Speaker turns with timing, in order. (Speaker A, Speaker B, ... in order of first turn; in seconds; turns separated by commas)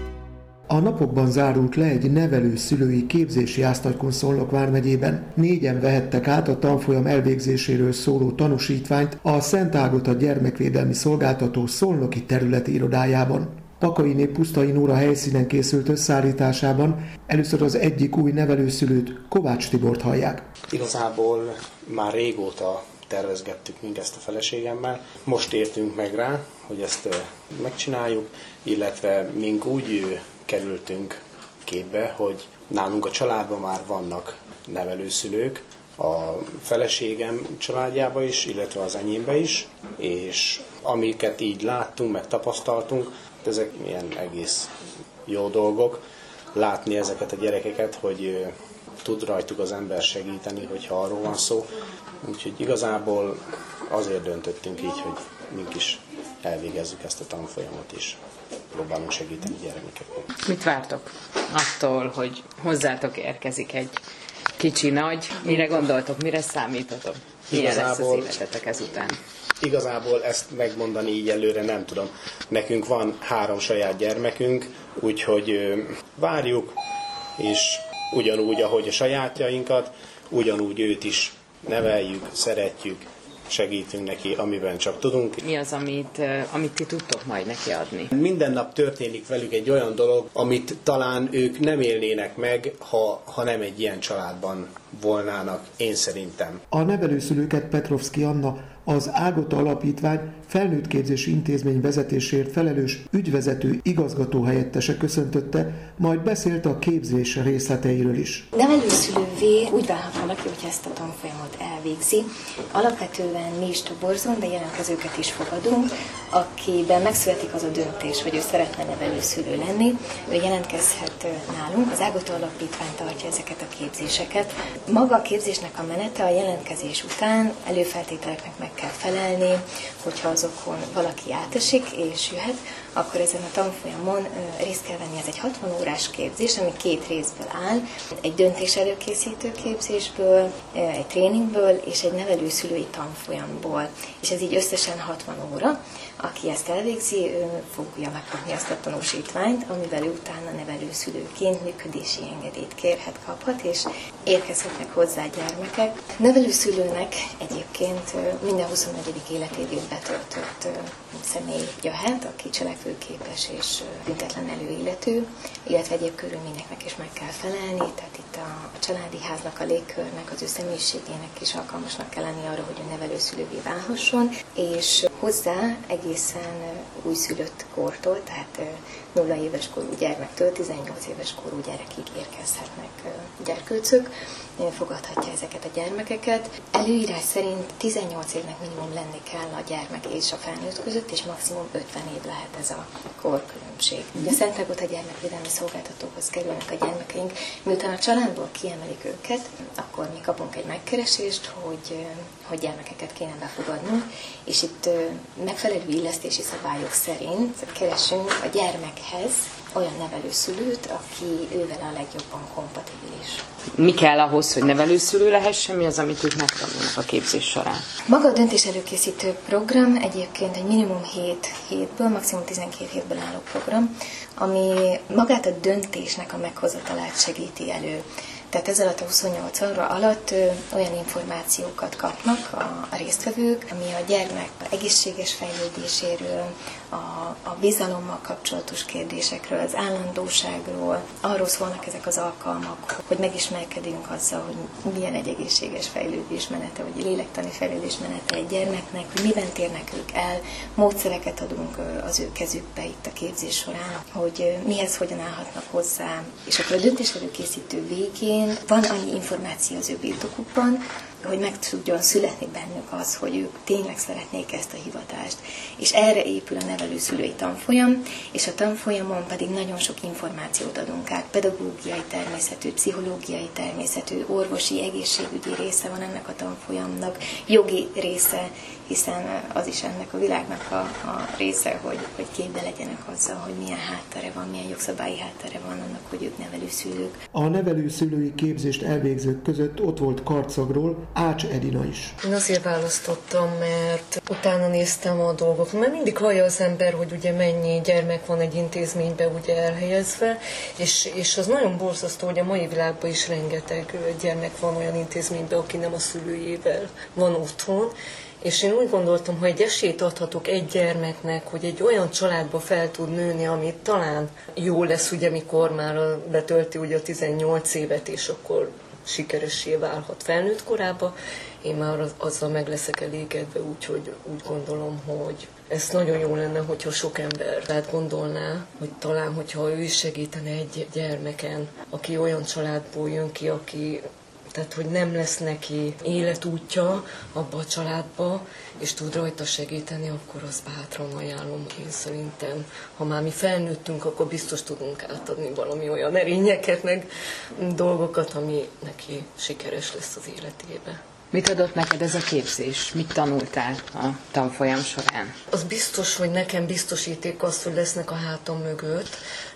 Speaker A: 0.7-20.5, Speaker B: 20.7-44.7, Speaker B: 45.3-48.5, Speaker B: 49.0-51.7, Speaker B: 52.2-53.4, Speaker B: 53.9-58.2, Speaker B: 58.7-60.3, Speaker C: 60.4-64.0, Speaker C: 64.6-69.2, Speaker B: 67.5-68.4, Speaker B: 69.6-76.8, Speaker B: 77.4-85.4, Speaker C: 85.4-88.1, Speaker B: 88.1-96.6, Speaker A: 96.7-108.5, Speaker D: 108.5-213.4, Speaker C: 213.8-217.8, Speaker D: 218.1-287.2, Speaker A: 287.3-292.2, Speaker E: 292.2-334.0, Speaker E: 334.5-351.0, Speaker C: 351.3-355.3, Speaker E: 355.5-359.2